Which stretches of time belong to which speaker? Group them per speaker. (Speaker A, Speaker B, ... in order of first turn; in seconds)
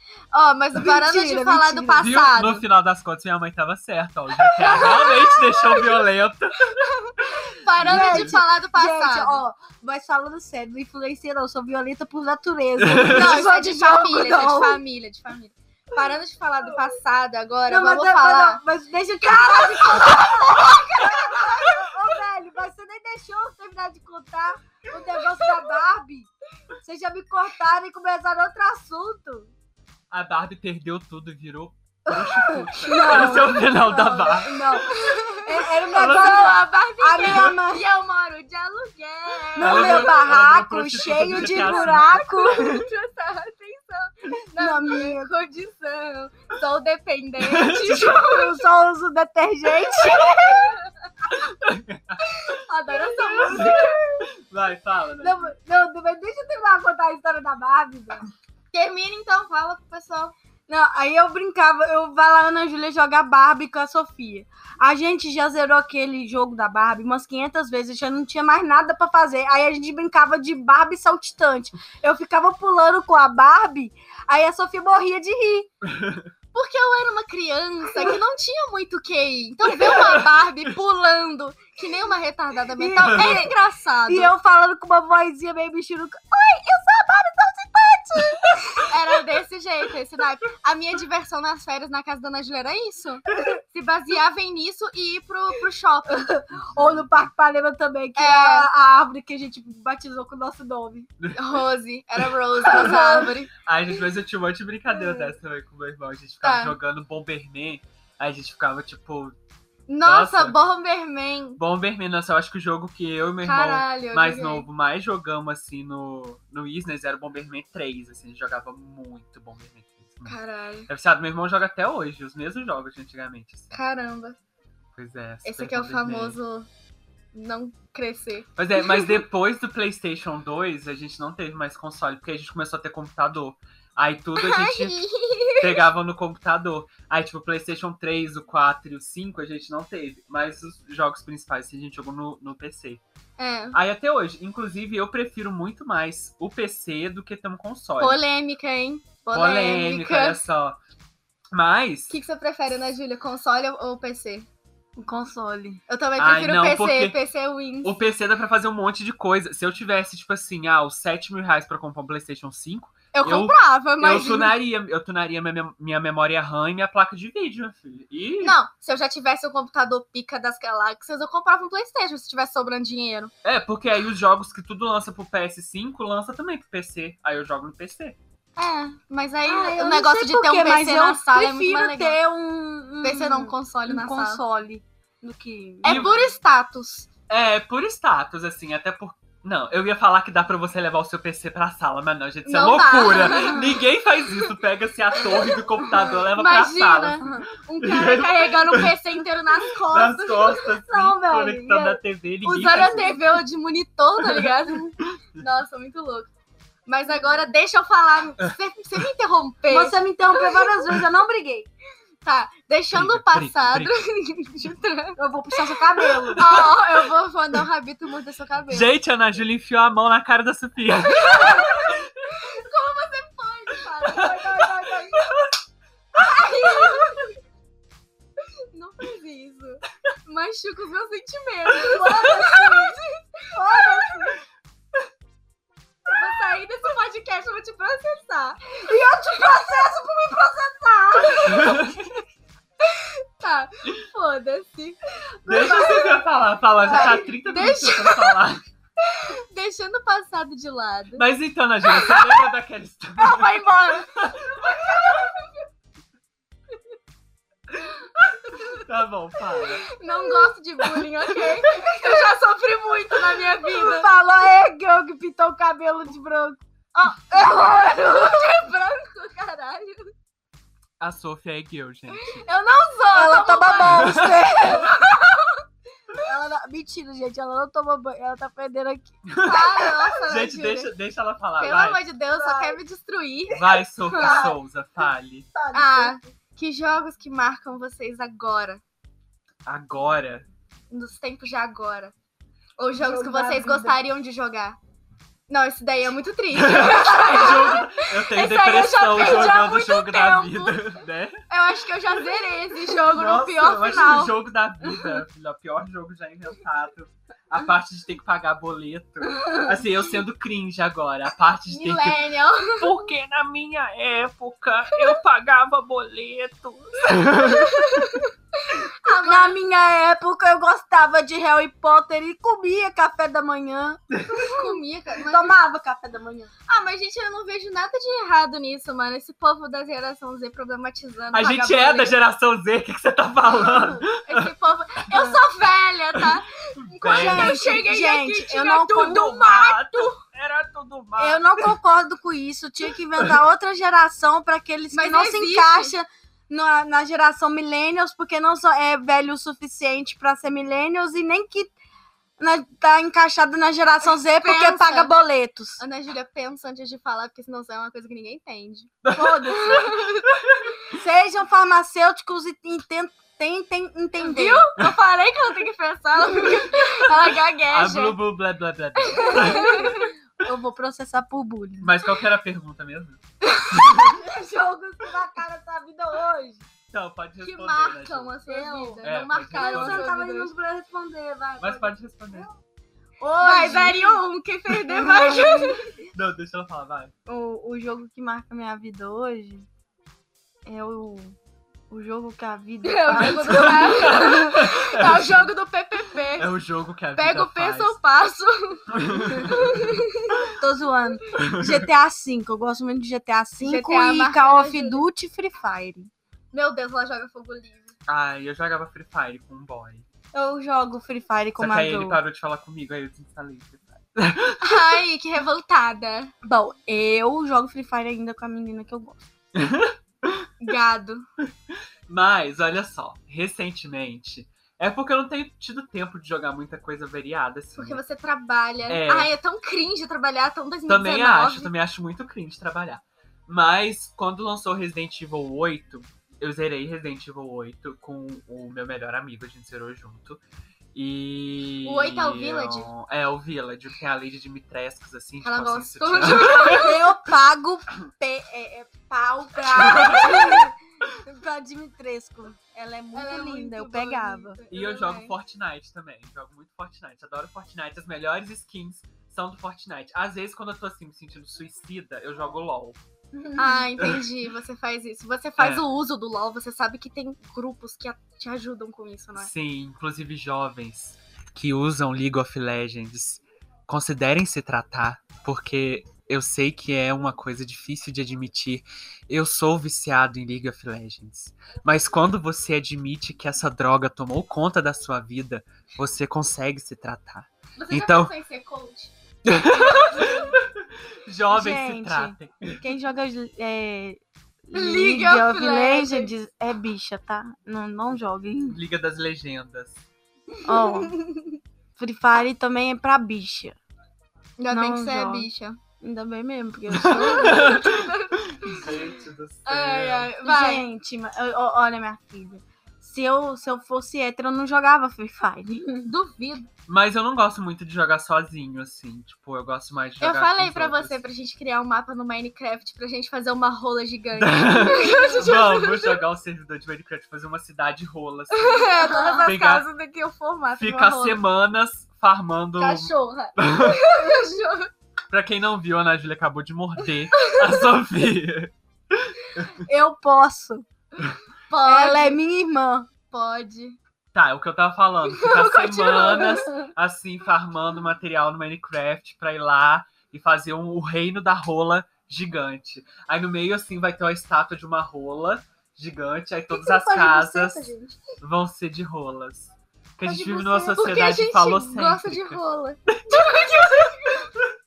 Speaker A: 0.3-2.6, 4.8-5.0, 7.0-9.4, 13.1-18.6, 19.3-20.2, 34.9-40.2, 41.5-48.7, 52.3-54.0, 58.7-60.4, 76.5-84.3, 88.8-96.3, 98.2-98.7, 101.3-103.5, 106.4-106.8, 109.9-111.6, 113.4-114.7, 120.3-120.9, 123.7-124.4, 125.5-126.7, 127.3-129.2, 134.4-135.8, 143.4-143.8, 148.0-150.4, 152.1-154.5, 155.9-158.0, 163.1-164.6, 168.4-173.3, 178.6-182.2, 183.0-184.4, 185.8-187.1, 192.5-193.8, 195.2-195.5, 196.2-200.7, 202.4-206.3, 206.9-210.0, 212.2-215.2, 216.4-218.9, 221.2-224.7, 226.2-227.3, 228.7-234.1, 236.1-238.8, 241.4-241.8, 242.8-245.0, 245.5-246.1, 246.9-248.4, 249.0-251.2, 251.8-252.5, 253.2-255.5, 259.8-264.1, 267.4-270.1, 272.1-275.6, 279.4-280.9, 281.6-284.5, 285.7-288.8, 290.9-292.1, 292.8-294.8, 295.5-300.9, 301.5-304.4, 311.7-313.0, 317.4-319.6, 324.4-325.6, 326.7-332.1, 334.2-340.2, 344.9-345.9, 354.2-355.1, 355.8-359.0, 359.5-360.3, 364.2-368.2, 369.0-370.1, 377.4-380.5, 383.4-385.9, 392.8-396.5, 397.2-400.4, 403.6-405.0, 406.5-407.9, 414.6-416.3, 420.6-421.2, 427.8-431.7, 441.8-442.9, 445.4-447.0, 449.9-450.4, 453.1-455.3, 463.6-469.5, 487.8-489.1, 489.9-490.4, 494.7-496.3, 500.7-501.6, 504.6-505.8, 507.1-508.8, 509.7-510.9, 516.1-516.7, 520.2-526.2, 528.5-531.4, 532.8-534.9, 537.3-537.8, 541.7-542.4, 543.3-544.0, 545.3-546.9, 556.8-558.0, 560.4-564.5
Speaker B: 0.8-2.0, 4.4-5.9, 7.8-14.8, 17.7-26.3, 26.8-29.5, 32.4-37.8, 39.6-42.9, 44.6-45.3, 48.0-50.8, 53.1-54.2, 55.2-58.3, 60.7-75.7, 82.8-83.5, 84.1-88.9, 96.1-101.1, 155.0-155.8, 179.5-186.1, 197.2-197.5, 200.9-202.0, 209.7-211.7, 215.2-216.6, 224.1-225.3, 231.8-233.0, 233.5-234.4, 238.8-241.9, 245.5-246.0, 263.6-268.5, 273.1-275.0, 276.2-279.6, 282.3-282.8, 284.1-284.5, 285.5-286.2, 293.0-294.0, 319.2-324.6, 325.3-326.5, 337.0-339.3, 341.2-351.7, 352.4-355.8, 359.1-359.9, 360.9-364.6, 369.2-371.9, 373.9-376.7, 378.5-382.4, 383.2-384.2, 384.9-385.8, 387.3-389.7, 390.7-391.4, 391.9-394.6, 400.6-406.1, 410.3-412.2, 416.4-419.3, 446.6-454.6, 463.4-463.9, 491.5-498.8, 500.6-501.2, 502.0-503.8, 504.7-505.5, 506.0-507.8, 510.4-516.1, 529.0-529.5, 539.8-540.9, 541.8-543.1, 560.4-560.7
Speaker C: 2.0-8.4, 12.8-13.3, 30.1-34.9, 35.9-36.5, 39.6-42.6, 47.4-48.2, 51.4-52.6, 53.4-55.5, 75.8-76.3, 79.8-80.3, 83.1-83.4, 96.6-97.1, 101.2-101.7, 102.2-103.0, 103.6-109.3, 110.0-110.6, 111.6-120.4, 120.9-123.7, 125.0-126.4, 128.6-135.0, 135.6-143.0, 143.7-148.2, 149.3-150.8, 151.5-152.2, 156.2-157.2, 157.8-168.6, 173.4-178.2, 185.8-186.2, 187.3-197.3, 197.8-199.0, 199.8-203.2, 204.2-204.5, 212.9-213.9, 216.2-216.7, 218.7-222.1, 224.2-224.4, 241.4-242.1, 245.5-248.6, 251.2-255.1, 258.2-259.9, 271.0-272.4, 273.9-274.4, 279.3-282.0, 283.5-285.5, 289.7-290.5, 296.5-301.4, 303.1-312.2, 312.8-318.2, 324.1-324.5, 331.3-334.5, 336.1-337.6, 339.0-341.7, 359.0-360.7, 367.7-370.0, 371.8-373.2, 373.7-374.2, 376.9-378.3, 379.0-380.1, 381.6-382.5, 386.1-387.1, 393.4-395.5, 396.4-398.0, 398.9-400.0, 401.4-401.9, 408.1-410.1, 411.6-415.0, 419.6-420.5, 421.7-428.0, 428.9-429.3, 430.9-440.4, 440.9-446.9, 449.7-450.6, 454.7-463.0, 464.0-464.3, 465.6-465.8, 469.4-488.3, 489.4-492.8, 498.7-500.0, 506.9-510.3, 516.9-521.2, 524.4-529.9, 530.8-534.0, 535.3-539.7, 544.3-564.8